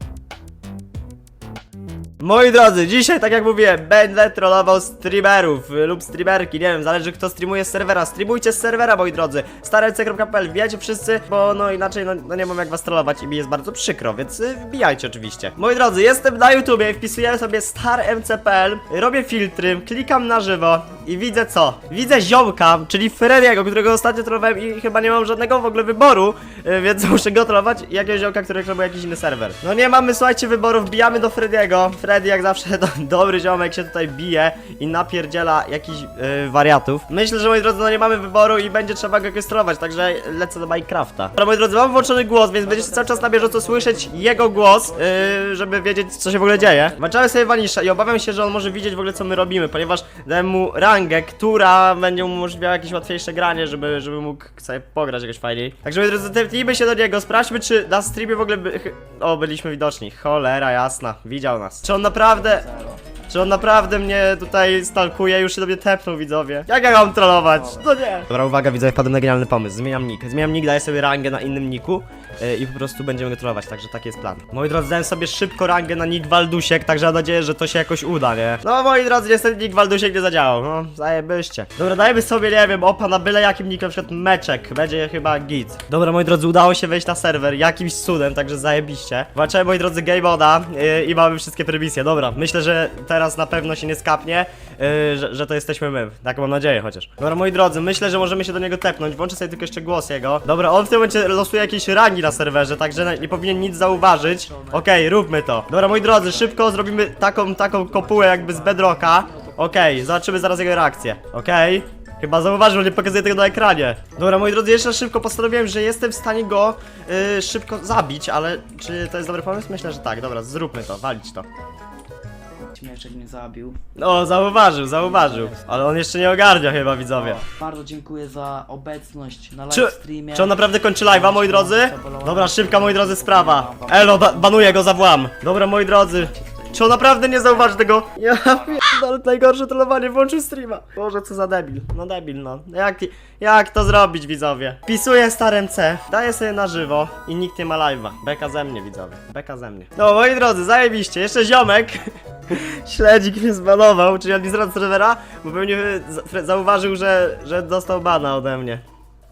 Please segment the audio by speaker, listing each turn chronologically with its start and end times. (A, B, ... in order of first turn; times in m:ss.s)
0:02.2-1:02.7 A
0:42.6-0:45.4 B
0:46.5-0:47.0 B
1:02.3-1:03.0 B
1:03.3-2:01.5 A
1:07.5-1:07.9 B
1:43.2-1:45.0 B
1:45.7-1:50.5 B
2:02.7-2:03.8 B
2:04.0-2:07.4 A
2:05.0-2:05.7 B
2:07.2-2:15.2 B
2:09.7-2:38.8 A
2:15.8-2:18.8 B